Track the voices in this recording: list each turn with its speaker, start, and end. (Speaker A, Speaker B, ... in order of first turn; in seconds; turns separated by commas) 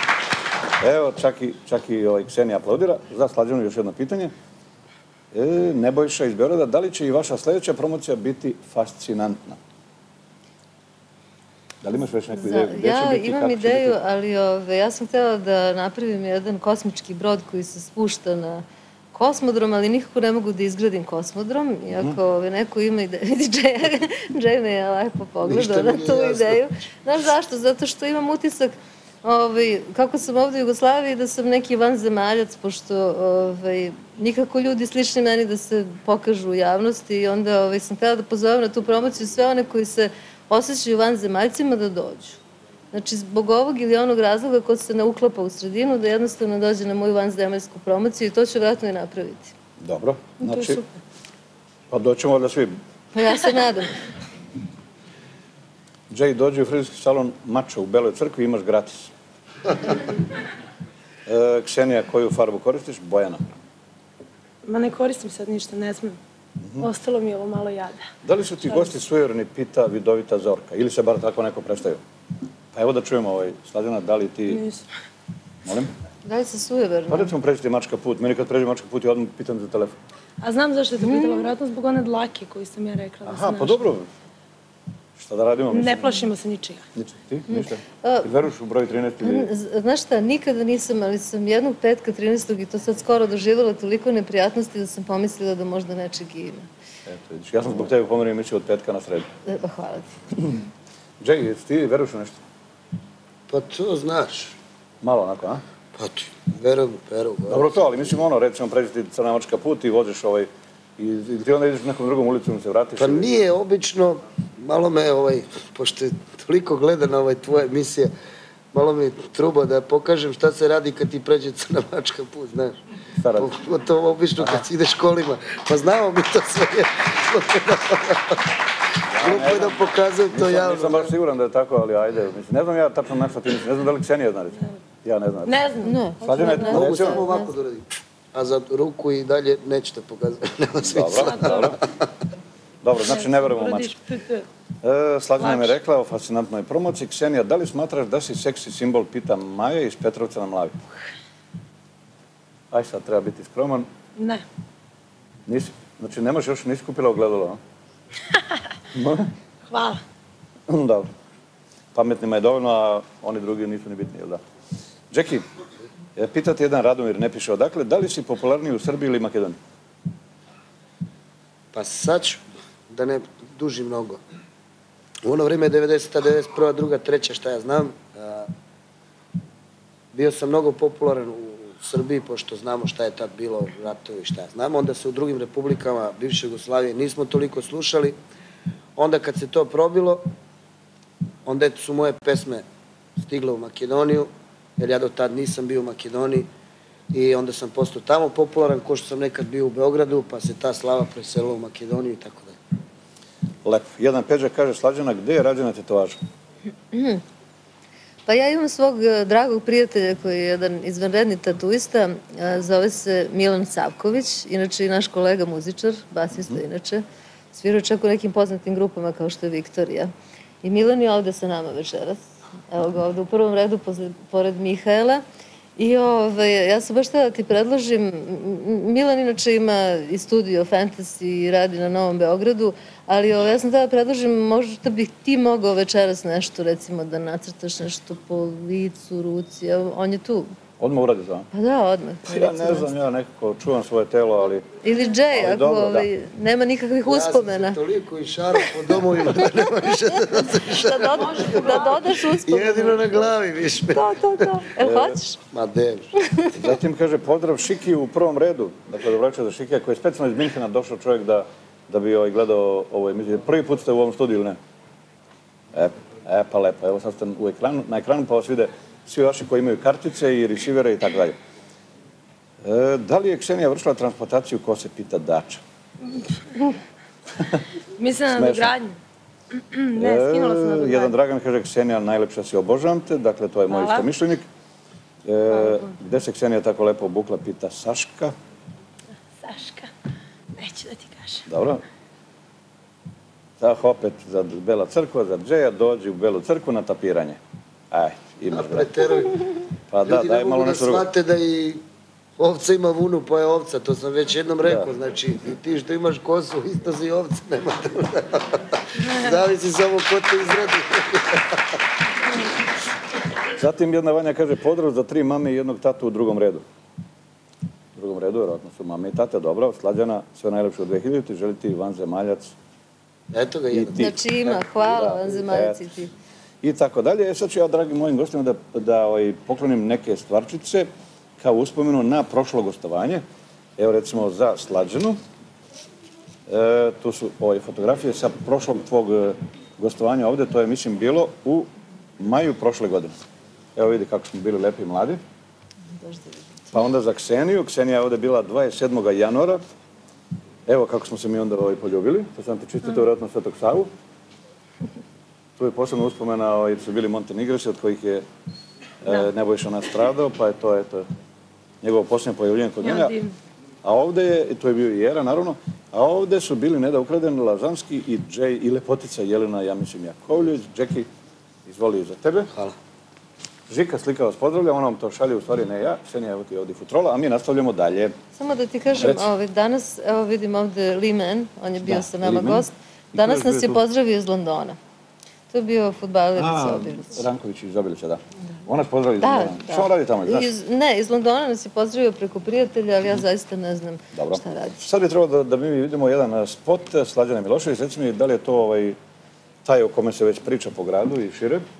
Speaker A: 0.8-4.3, Speaker A: 5.3-9.6, Speaker A: 11.8-14.0, Speaker B: 12.4-42.4, Speaker C: 25.4-26.6, Speaker B: 42.9-49.5, Speaker A: 49.8-50.8, Speaker D: 50.4-50.9, Speaker A: 51.9-52.8, Speaker B: 53.1-54.0, Speaker A: 56.1-59.1, Speaker A: 61.3-63.4, Speaker D: 64.7-66.2, Speaker D: 66.8-68.0, Speaker A: 68.2-72.0, Speaker A: 72.7-74.6, Speaker D: 74.5-74.8, Speaker A: 75.7-75.9, Speaker B: 76.2-77.3, Speaker A: 77.1-80.0, Speaker D: 80.4-83.9, Speaker B: 81.0-81.4, Speaker A: 83.3-84.1, Speaker A: 85.2-86.1, Speaker D: 85.7-86.8, Speaker A: 87.0-89.5, Speaker B: 87.5-88.3, Speaker B: 89.2-96.7, Speaker A: 97.1-99.3, Speaker B: 99.5-100.2, Speaker A: 101.2-102.4, Speaker C: 103.5-104.5, Speaker A: 105.0-105.6, Speaker C: 106.0-107.8, Speaker A: 107.5-113.3, Speaker C: 113.0-118.1, Speaker C: 118.7-122.8, Speaker A: 123.2-123.5, Speaker C: 123.4-128.5, Speaker A: 124.4-124.6, Speaker A: 129.1-135.6, Speaker C: 129.2-131.1, Speaker D: 135.5-136.8, Speaker B: 135.8-137.5, Speaker A: 136.2-137.3, Speaker C: 136.7-141.7, Speaker A: 140.8-141.8, Speaker D: 141.2-141.8, Speaker A: 142.8-143.9, Speaker D: 143.0-144.5, Speaker A: 144.8-150.8, Speaker D: 145.4-145.7, Speaker A: 152.7-153.9, Speaker D: 154.2-154.4, Speaker A: 155.5-157.6, Speaker A: 158.9-159.3, Speaker D: 159.7-160.0, Speaker A: 160.7-161.1, Speaker A: 161.9-164.4, Speaker A: 165.1-165.4, Speaker A: 166.2-169.6, Speaker C: 171.7-174.2, Speaker C: 175.2-178.5, Speaker C: 180.1-188.2, Speaker C: 189.0-190.3, Speaker C: 191.5-192.7, Speaker C: 193.2-196.5, Speaker C: 197.1-202.6, Speaker A: 203.7-206.2, Speaker B: 206.9-207.2, Speaker B: 208.3-220.1, Speaker B: 220.6-225.2, Speaker B: 225.8-240.5, Speaker A: 240.8-241.5, Speaker B: 241.5-242.9, Speaker A: 242.2-244.7, Speaker B: 244.8-247.8, Speaker A: 245.3-246.1, Speaker C: 247.1-254.1, Speaker B: 250.8-253.3, Speaker D: 251.2-251.9, Speaker B: 253.9-255.4, Speaker A: 254.8-255.2, Speaker C: 255.5-256.1, Speaker A: 256.6-264.6, Speaker A: 265.7-271.4, Speaker A: 272.6-275.6, Speaker D: 278.0-279.0, Speaker A: 278.3-278.7, Speaker D: 279.8-281.1, Speaker A: 280.0-284.4, Speaker D: 283.7-284.1, Speaker A: 285.2-288.4, Speaker D: 285.5-285.9, Speaker D: 289.4-289.9, Speaker D: 290.6-291.5, Speaker A: 291.5-291.8, Speaker A: 293.6-297.4, Speaker A: 297.9-298.9, Speaker C: 298.5-299.4, Speaker A: 299.9-301.1, Speaker C: 300.1-301.8, Speaker C: 302.4-311.6, Speaker A: 304.6-304.9, Speaker A: 313.6-316.6, Speaker A: 317.9-322.6, Speaker C: 323.3-324.1, Speaker A: 323.7-324.2, Speaker B: 324.0-326.1, Speaker A: 324.8-325.8, Speaker A: 326.6-330.9, Speaker A: 331.4-333.2, Speaker A: 333.8-335.2, Speaker A: 336.5-341.7, Speaker A: 342.2-343.1, Speaker A: 343.8-345.2, Speaker B: 346.0-346.7, Speaker A: 346.7-349.6, Speaker A: 350.7-353.9, Speaker A: 355.6-358.2, Speaker A: 359.0-361.1, Speaker A: 361.8-363.1, Speaker D: 362.8-363.3, Speaker A: 363.8-371.1, Speaker A: 371.7-372.5, Speaker A: 373.7-378.1, Speaker B: 378.4-384.8, Speaker A: 378.9-379.3, Speaker A: 381.8-383.8, Speaker B: 385.5-387.2, Speaker A: 386.4-390.5, Speaker B: 389.2-394.8, Speaker A: 394.1-399.0, Speaker A: 399.6-401.6